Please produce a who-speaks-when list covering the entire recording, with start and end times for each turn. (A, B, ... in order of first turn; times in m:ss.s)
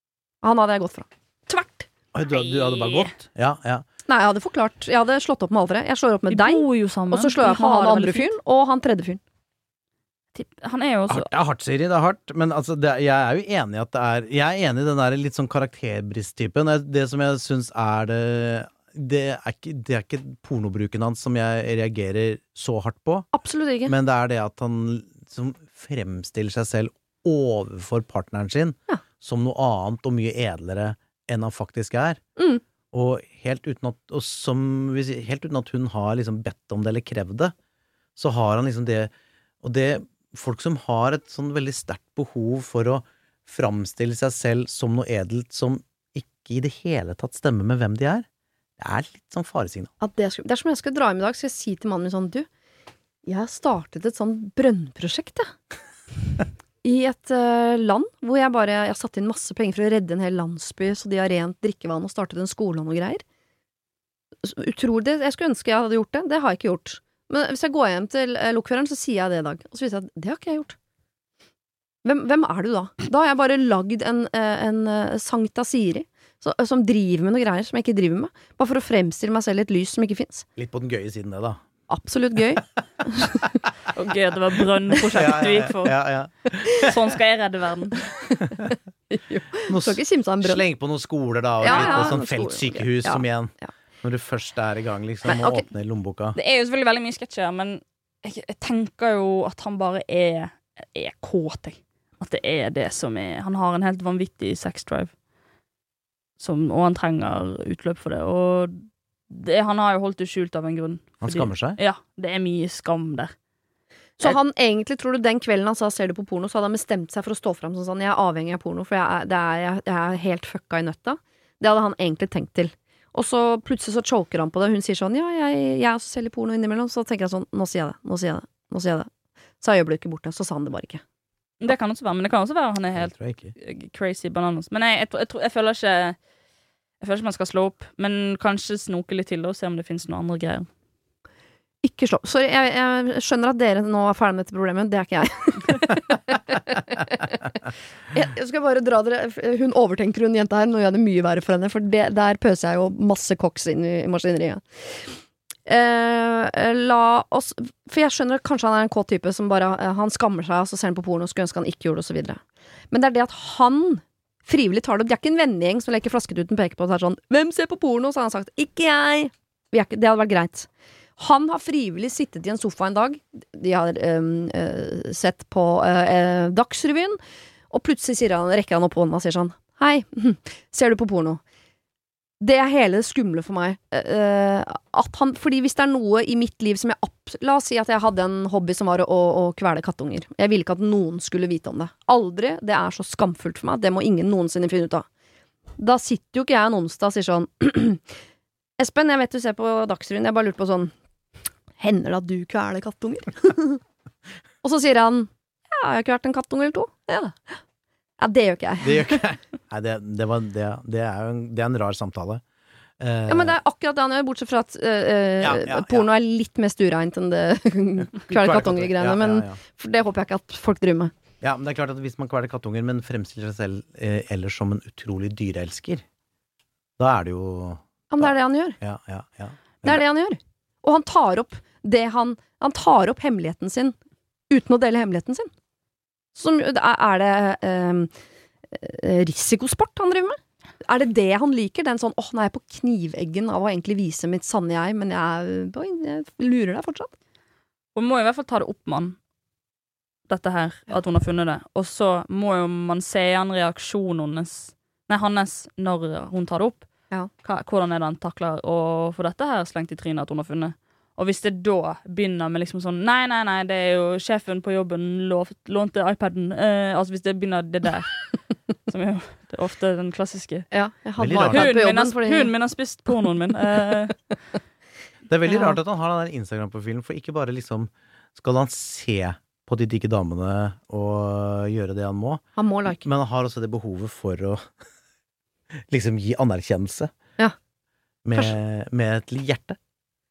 0:00.4-0:01.9 A
0:02.1-0:03.8 B
0:02.3-0:03.1 C
0:04.1-0:09.2 A
0:06.3-0:08.3 C
0:10.3-0:11.3 C
0:11.1-0:23.3 B
0:23.3-0:23.9 A
0:23.8-0:32.2 B
0:32.4-0:32.6 A
0:32.9-0:37.5 B
0:38.2-0:48.2 B
0:48.8-0:49.9 B
0:50.0-0:52.5 A
0:53.2-0:55.5 A
0:56.8-1:03.2 A
1:04.4-1:10.8 A
1:12.0-1:20.4 A
1:20.6-1:21.6 B
1:21.9-1:23.6 A
1:23.9-1:26.0 C
1:25.1-1:27.0 B
1:26.7-1:28.1 C
1:28.3-1:30.6 A
1:29.7-1:36.4 B
1:31.6-1:33.7 A
1:31.7-1:32.1 C
1:35.2-1:35.6 A
1:36.3-1:45.1 C
1:46.4-1:53.3 C
1:51.2-1:51.8 B
1:54.2-2:09.1 A
2:09.6-2:11.0 A
2:11.6-2:16.2 C
2:12.9-2:13.5 B
2:17.0-2:20.7 C
2:21.8-2:27.4 A
2:28.1-2:35.1 A
2:35.6-2:42.4 A
2:42.9-2:57.2 A
2:57.7-3:01.4 A
3:02.4-3:15.1 A
3:15.8-3:18.0 A
3:18.8-3:20.9 A
3:21.8-3:23.8 A
3:24.6-3:27.6 A
3:28.2-3:29.2 A
3:28.8-3:32.4 B
3:33.0-3:33.6 B
3:33.3-3:41.1 A
3:35.4-3:36.1 B
3:38.3-3:39.6 B
3:41.4-3:46.0 B
3:47.0-3:50.0 B
3:48.1-3:48.8 A
3:49.8-3:53.9 A
3:54.5-3:55.5 A
3:56.3-3:58.1 A
3:58.7-4:07.1 A
4:07.9-4:09.2 C
4:10.3-4:16.9 C
4:17.4-4:28.3 C
4:28.9-4:30.7 C
4:30.7-4:32.5 A
4:31.2-4:31.7 B
4:31.4-4:34.3 C
4:35.3-4:42.4 B
4:35.5-4:35.7 A
4:42.6-4:43.0 A
4:43.0-4:44.7 B
4:45.7-4:47.1 B
4:48.2-4:49.8 B